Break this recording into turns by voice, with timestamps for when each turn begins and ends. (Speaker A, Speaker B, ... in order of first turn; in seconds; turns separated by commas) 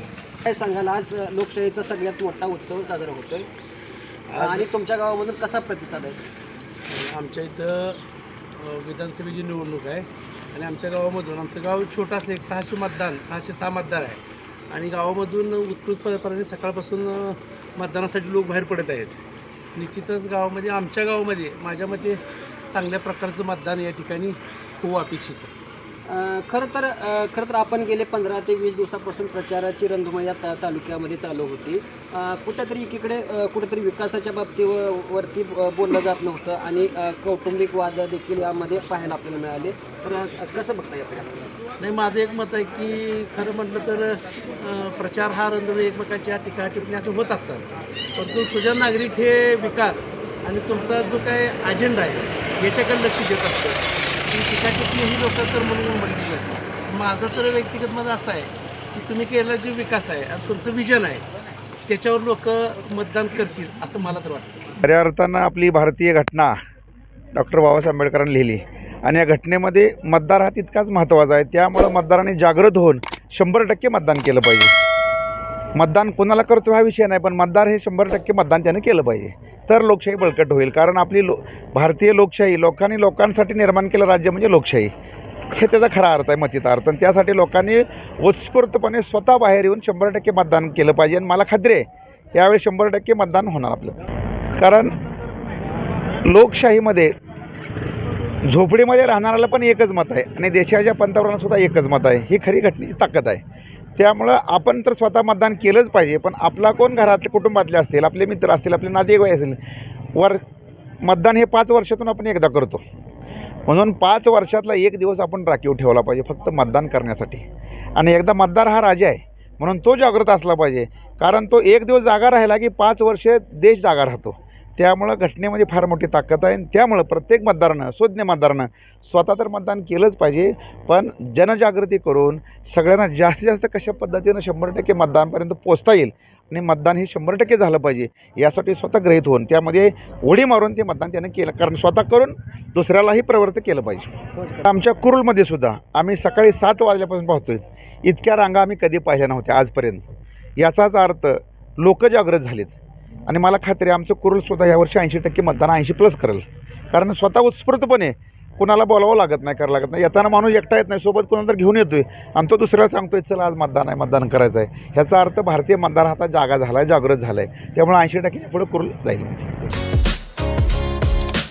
Speaker A: 0.4-3.5, Speaker B: 4.3-4.7, Speaker A: 4.3-6.2, Speaker B: 6.8-8.0, Speaker B: 8.6-19.2, Speaker B: 19.7-25.5, Speaker A: 26.1-41.5, Speaker B: 41.8-61.2, Speaker B: 61.9-64.7, Speaker C: 64.8-66.5, Speaker C: 67.3-74.7, Speaker C: 75.8-84.9, Speaker C: 85.5-94.0, Speaker C: 94.6-94.9, Speaker C: 96.2-97.1, Speaker C: 98.4-103.4, Speaker C: 104.0-109.6, Speaker C: 110.2-110.4, Speaker C: 111.0-112.8, Speaker C: 113.7-117.4, Speaker C: 118.0-150.0, Speaker C: 150.6-152.7, Speaker C: 153.3-169.6